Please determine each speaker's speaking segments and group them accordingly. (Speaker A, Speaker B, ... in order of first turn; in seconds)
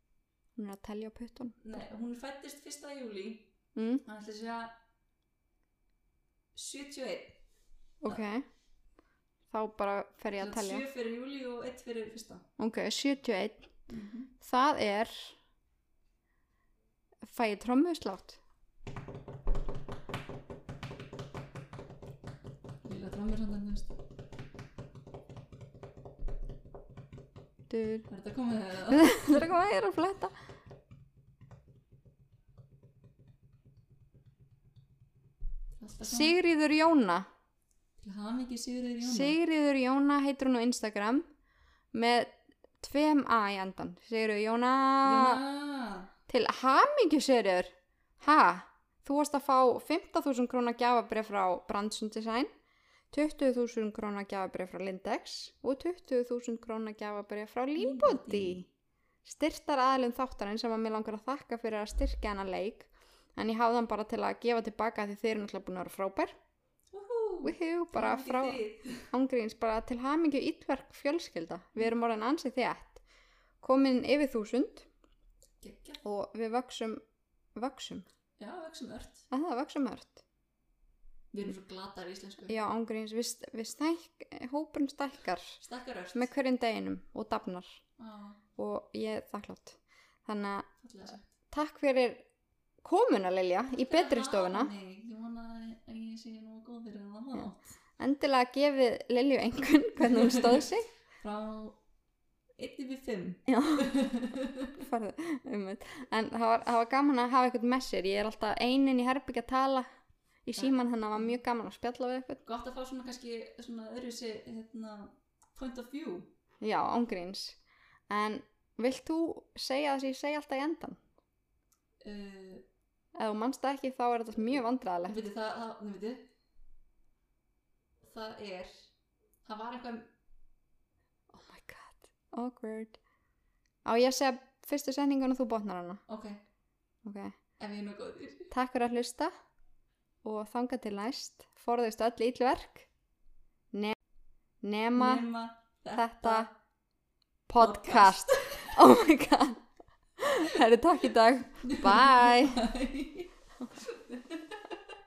Speaker A: 0.6-1.6, 3.8-4.0, 8.0-8.5, 9.5-10.9, 12.6-13.7, 14.4-15.3, 17.2-18.4, 27.7-28.1, 28.9-30.4, 36.0-37.3, 39.0-41.3, 41.9-45.4, 46.3-52.5, 53.1-58.7, 59.2-66.3, 67.4-73.0, 73.6-74.9, 76.0-77.0, 77.6-78.1, 79.3-80.2, 82.5-85.6, 86.1-87.8, 88.6-90.7, 91.5-92.2, 92.8-94.7, 98.0-100.9, 103.5-103.9, 104.8-109.9, 110.5-112.4, 116.6-117.6, 118.1-121.0, 123.2-125.2, 131.3-133.0, 133.8-136.0, 137.0-137.3, 138.5-139.3, 140.2-142.9, 144.6-145.3, 145.9-146.5, 147.5-149.6, 150.2-152.6
Speaker B: 1.6-3.5, 4.0-4.7, 6.5-7.4, 10.4-12.4, 13.9-14.3, 22.8-24.0, 28.1-29.5, 35.8-36.4, 38.0-39.4, 45.0-46.1, 57.8-58.6, 66.9-69.1, 75.6-76.0, 78.4-79.3, 81.3-82.6, 85.6-86.3, 88.0-88.4, 90.8-91.3, 93.7-97.6, 100.0-100.7, 101.2-101.8, 102.6-104.8, 110.6-111.3, 112.4-116.3, 122.0-122.6, 125.1-126.3, 128.0-128.9, 129.5-130.1, 136.1-136.4, 137.6-138.5, 145.0-146.5, 147.6-148.7, 151.6-154.7